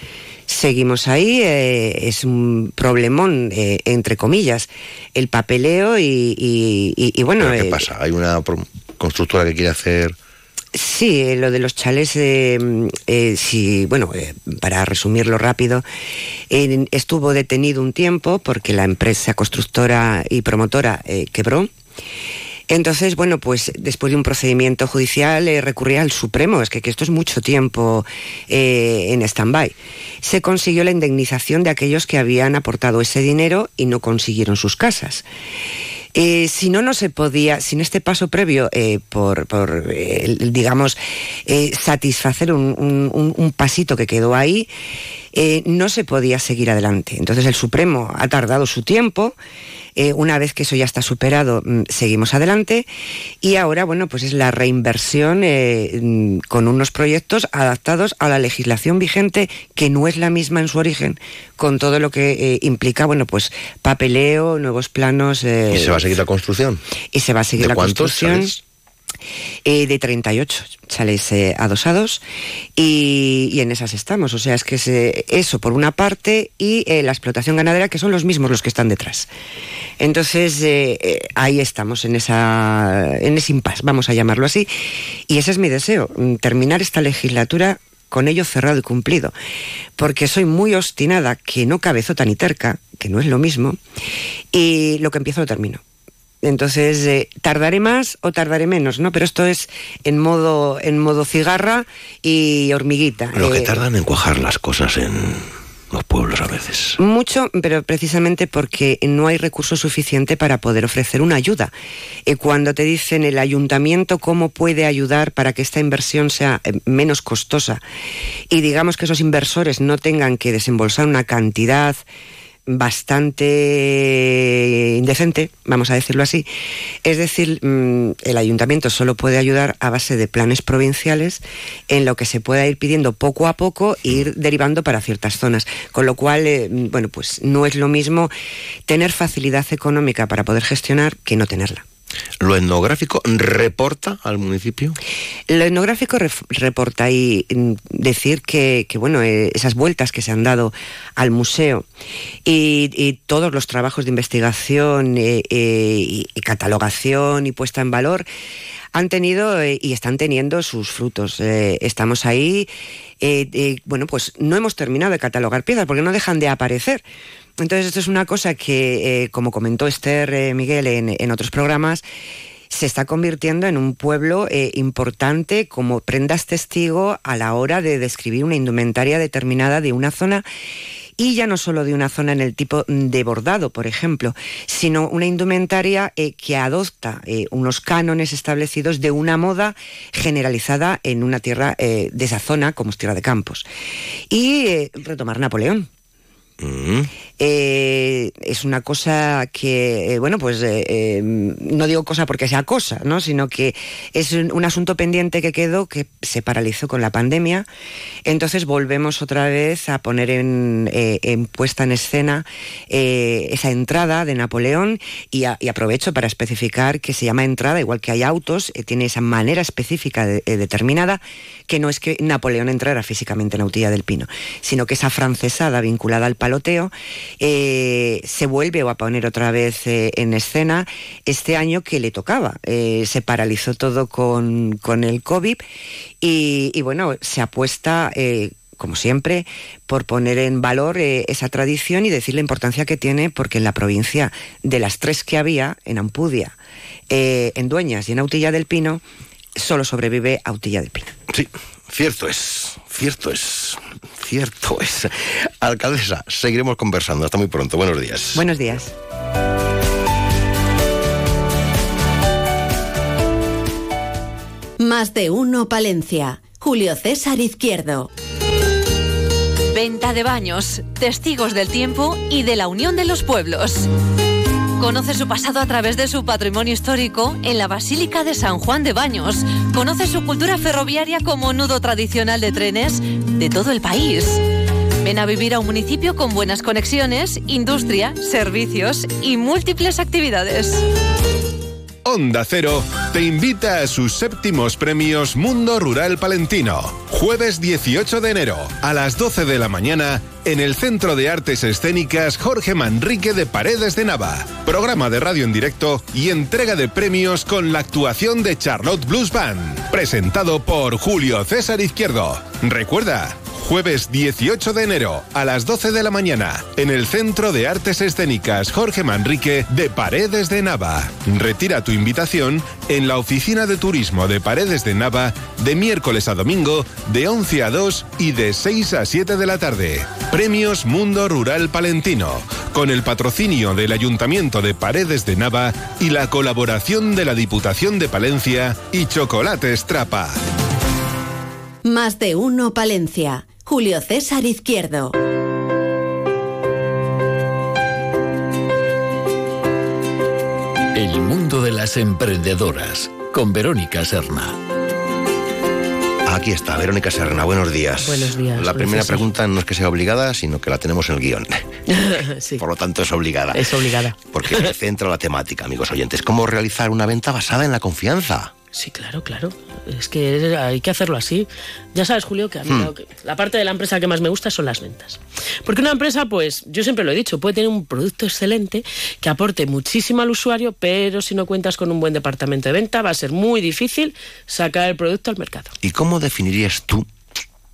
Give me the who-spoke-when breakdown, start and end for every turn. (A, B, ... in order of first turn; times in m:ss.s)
0:00.5-0:07.8 A
0:07.4-0:10.2 B
0:10.7-0:15.9 A
0:16.5-0:21.7 A
0:22.7-0:35.2 A
0:36.2-0:44.7 A
0:45.3-0:49.4 A
0:50.0-0:52.9 A
0:53.4-1:06.0 A
1:05.7-1:06.8 B
1:07.1-1:08.5 A
1:07.6-1:08.6 B
1:09.6-1:12.2 A
1:12.8-1:19.3 A
1:20.0-1:24.7 A
1:25.3-1:29.3 A
1:30.0-1:33.8 A
1:34.5-1:35.8 A
1:36.4-1:43.8 A
1:43.3-1:47.0 B
1:47.0-1:51.7 A
1:52.3-1:57.8 A
1:58.5-2:02.0 A
2:02.7-2:06.5 A
2:07.0-2:18.3 A
2:18.9-2:21.8 A
2:22.4-2:25.0 B
2:25.5-2:31.9 A
2:32.4-2:38.3 A
2:38.9-2:42.7 A
2:43.2-2:47.0 A
2:47.6-2:52.0 A
2:52.7-3:00.4 A
3:01.2-3:13.7 A
3:14.3-3:15.9 A
3:16.6-3:17.1 B
3:17.4-3:27.7 A
3:28.3-3:55.6 A
3:56.2-4:06.6 A
4:07.1-4:09.0 A
4:09.6-4:11.1 A
4:11.3-4:18.5 B
4:18.4-4:18.9 A
4:24.8-4:28.1 C
4:29.7-4:33.9 D
4:34.8-4:44.4 D
4:45.0-4:50.8 D
4:52.0-5:40.4 E
5:41.8-5:45.2 C
5:51.0-5:54.6 F
5:56.3-6:01.7 B
5:58.0-5:59.3 G
6:01.9-6:02.6 G
6:02.6-6:08.5 B
6:03.5-6:04.7 G
6:08.7-6:25.7 G
6:12.6-6:12.9 B
6:25.8-6:27.1 B